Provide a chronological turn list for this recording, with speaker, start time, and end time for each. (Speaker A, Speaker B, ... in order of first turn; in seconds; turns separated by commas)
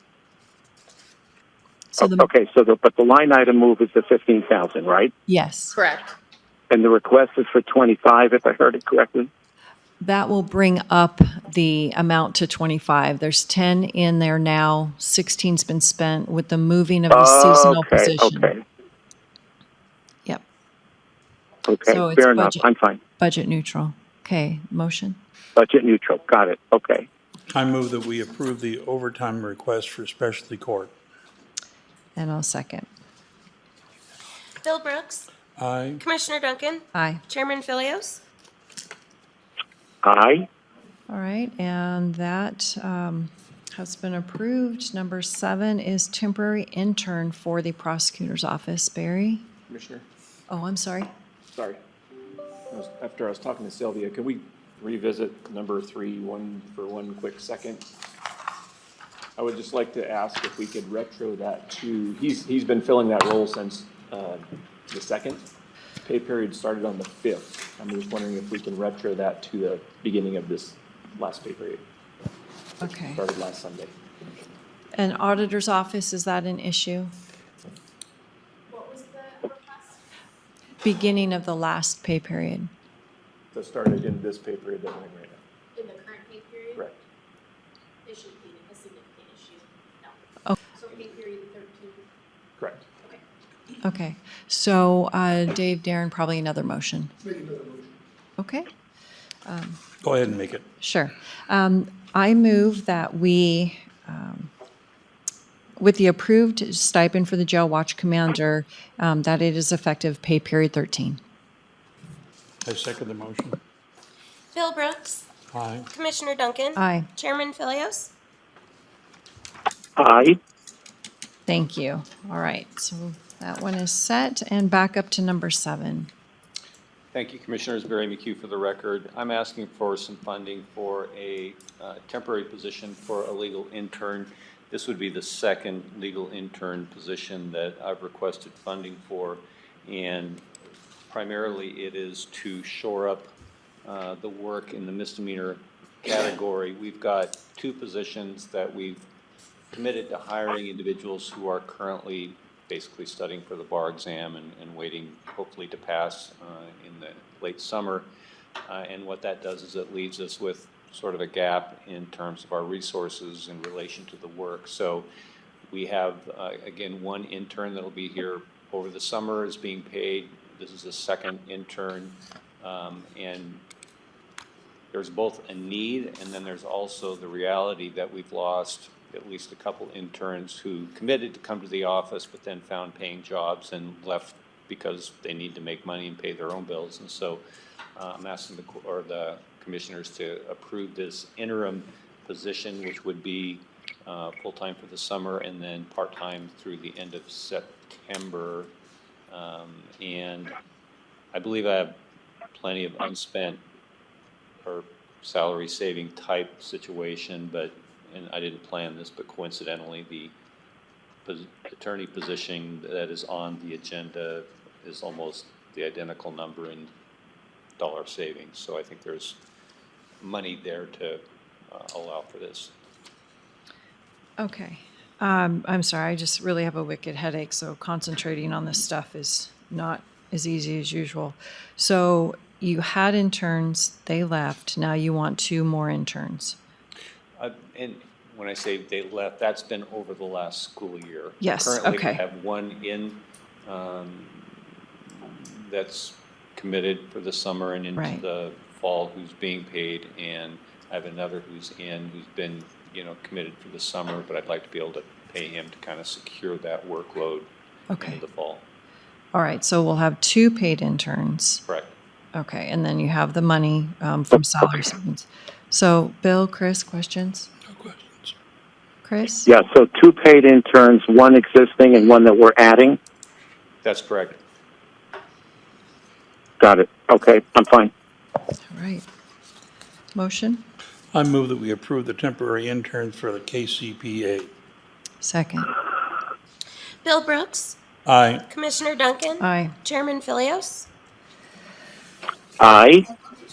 Speaker A: 1.9-2.3, Speaker B: 2.0-5.1, Speaker A: 5.3-5.8, Speaker B: 6.7-9.3, Speaker A: 10.0-18.5, Speaker B: 17.1-18.6, Speaker B: 21.6-23.0, Speaker A: 21.9-22.6, Speaker A: 23.2-25.2, Speaker B: 25.6-27.1, Speaker C: 27.5-30.9, Speaker A: 32.1-32.9, Speaker D: 34.6-35.3, Speaker C: 35.6-36.0, Speaker D: 36.0-38.2, Speaker A: 36.9-37.2, Speaker B: 40.0-40.5, Speaker A: 41.1-49.5, Speaker E: 49.7-50.0, Speaker A: 50.5-51.1, Speaker E: 51.5-51.8, Speaker E: 52.7-57.9, Speaker E: 59.4-65.5, Speaker E: 66.0-71.8, Speaker A: 72.8-73.2, Speaker E: 72.8-73.9, Speaker A: 74.9-77.1, Speaker F: 78.7-80.0, Speaker A: 80.8-82.7, Speaker E: 83.5-85.4, Speaker F: 85.8-86.8, Speaker F: 88.0-90.1, Speaker F: 90.8-92.0, Speaker E: 92.6-92.9, Speaker A: 93.8-97.1, Speaker A: 98.4-98.7, Speaker A: 99.5-99.8, Speaker C: 100.0-100.6, Speaker A: 100.8-104.5, Speaker A: 105.8-111.2, Speaker C: 112.6-113.6, Speaker D: 114.5-115.2, Speaker C: 115.5-115.9, Speaker D: 115.9-118.1, Speaker A: 116.8-117.1, Speaker B: 120.0-120.4, Speaker A: 121.5-126.1, Speaker G: 127.1-140.4, Speaker G: 141.1-143.3, Speaker G: 143.8-149.0, Speaker G: 149.7-158.1, Speaker G: 158.7-165.1, Speaker G: 165.7-173.6, Speaker G: 174.9-187.4, Speaker G: 188.0-198.7, Speaker G: 199.3-200.5, Speaker G: 201.3-202.0, Speaker G: 202.5-203.6, Speaker G: 204.6-210.3, Speaker G: 211.2-216.9, Speaker G: 217.8-219.4, Speaker G: 220.2-222.7, Speaker A: 224.4-236.6, Speaker G: 237.4-244.6, Speaker A: 241.4-242.2, Speaker G: 245.1-258.7, Speaker A: 247.9-248.2, Speaker A: 257.9-258.2, Speaker A: 259.3-261.6, Speaker G: 261.6-261.9, Speaker A: 262.3-267.5, Speaker C: 267.7-268.3, Speaker A: 269.0-269.5, Speaker B: 269.4-273.0, Speaker G: 273.8-274.4, Speaker B: 276.6-277.9, Speaker A: 278.7-279.1, Speaker A: 280.1-280.6, Speaker C: 281.1-284.5, Speaker A: 285.2-285.7, Speaker D: 287.0-287.8, Speaker C: 288.1-288.5, Speaker D: 288.5-290.9, Speaker A: 289.4-289.7, Speaker B: 292.6-293.0